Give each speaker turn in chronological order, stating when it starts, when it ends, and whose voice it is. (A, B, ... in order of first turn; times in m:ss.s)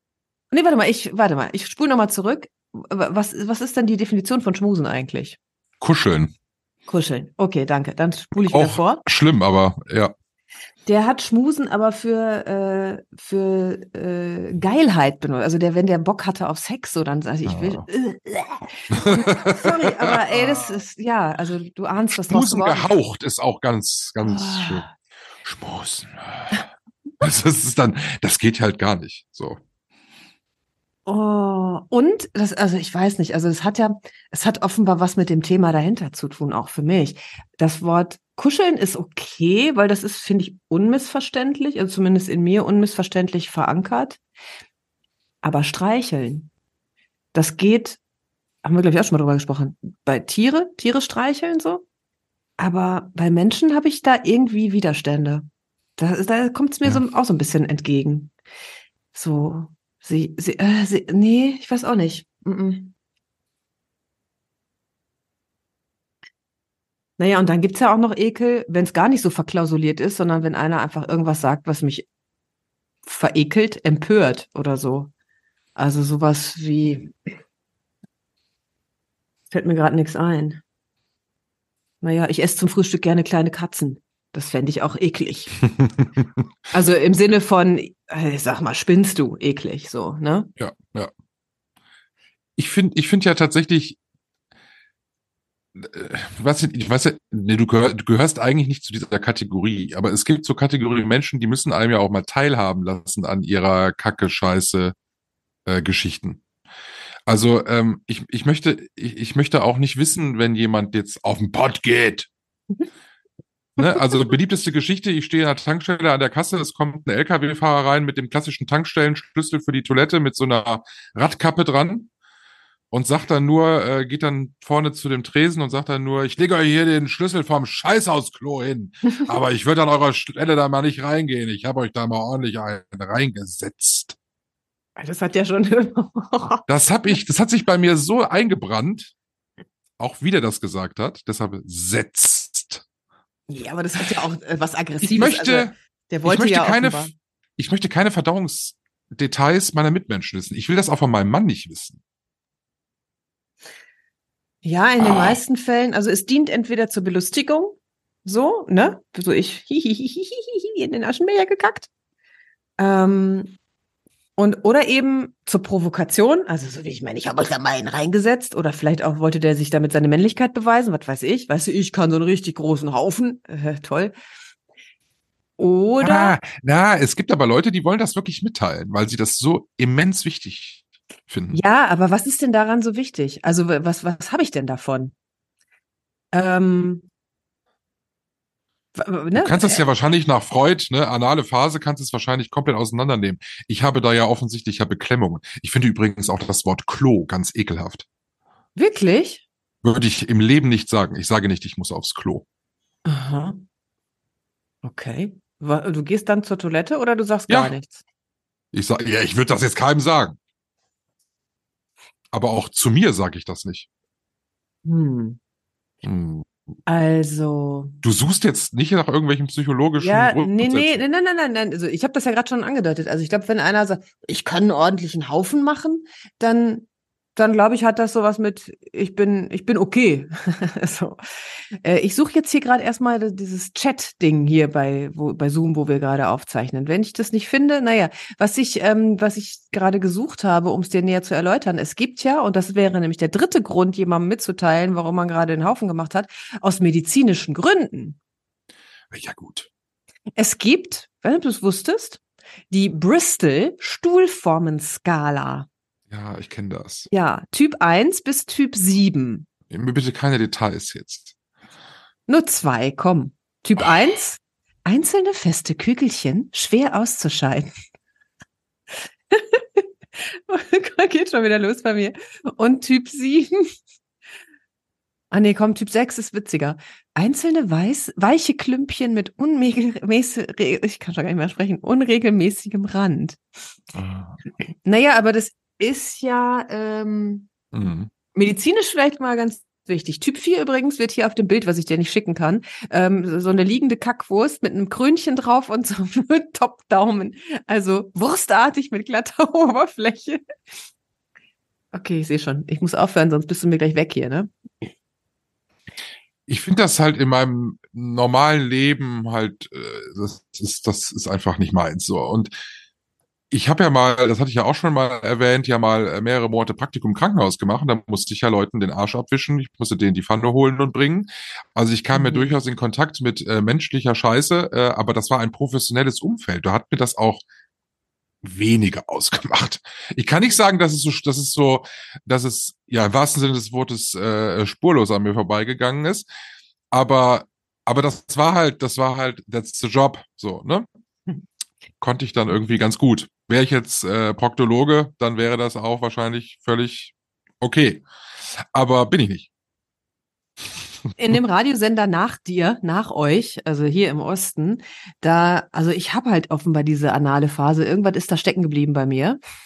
0:00.5-0:05.4 A
0:05.8-0:06.3 B
0:06.9-0:09.0 A
0:08.5-0:10.1 B
0:10.9-0:23.0 A
0:17.5-0:17.8 B
0:18.9-0:20.8 B
0:22.3-0:24.8 B
0:24.2-0:24.9 A
0:25.4-0:26.7 B
0:27.2-0:29.6 B
0:31.1-0:44.2 A
0:45.4-0:46.5 A
0:47.3-0:48.0 A
0:48.6-0:51.8 A
0:52.6-0:58.3 A
0:59.1-1:02.9 A
1:07.2-1:12.1 A
1:13.1-1:15.1 A
1:15.8-1:17.2 A
1:19.5-1:20.6 A
1:22.0-1:25.6 A
1:26.7-1:30.5 A
1:30.6-1:31.1 B
1:32.6-1:34.0 B
1:35.8-1:44.9 B
1:45.7-1:46.4 B
1:47.3-1:52.3 B
1:53.8-2:02.1 B
2:02.9-2:14.2 B
2:15.0-2:16.6 A
2:16.7-2:19.1 B
2:20.0-2:22.8 B
2:23.5-2:27.1 A
2:25.0-2:25.7 B
2:26.2-2:32.0 B
2:34.6-2:41.9 A
2:35.0-2:35.4 B
2:42.8-2:43.6 A
2:44.4-2:54.2 A
2:55.6-2:56.4 A
2:56.0-3:01.6 B
3:01.5-3:05.1 A
3:06.3-3:07.1 A
3:09.0-3:09.8 A
3:09.4-3:18.0 B
3:18.8-3:19.4 A
3:19.8-3:22.4 B
3:23.0-3:23.6 A
3:24.8-3:28.0 A
3:27.5-3:27.7 B
3:28.7-3:30.4 B
3:32.3-3:33.9 B
3:34.8-3:35.4 A
3:36.0-3:36.5 B
3:36.9-3:38.0 A
3:38.0-3:41.0 B
3:40.0-4:08.2 A
4:09.1-4:09.7 B
4:10.4-4:12.2 A
4:12.7-4:15.7 A
4:16.1-4:17.1 B
4:17.1-4:19.5 A
4:19.7-4:21.3 B
4:22.3-4:27.7 A
4:29.3-4:33.7 A
4:35.3-4:43.4 A
4:44.0-4:44.3 B
4:44.8-4:47.5 A
4:47.7-4:48.1 B
4:48.3-5:00.4 A
5:01.9-5:04.5 A
5:06.5-5:12.5 B
5:13.5-5:27.4 B
5:22.1-5:22.5 A
5:28.4-5:36.3 B
5:36.9-5:40.9 B
5:42.0-5:49.5 B
5:51.2-5:59.4 A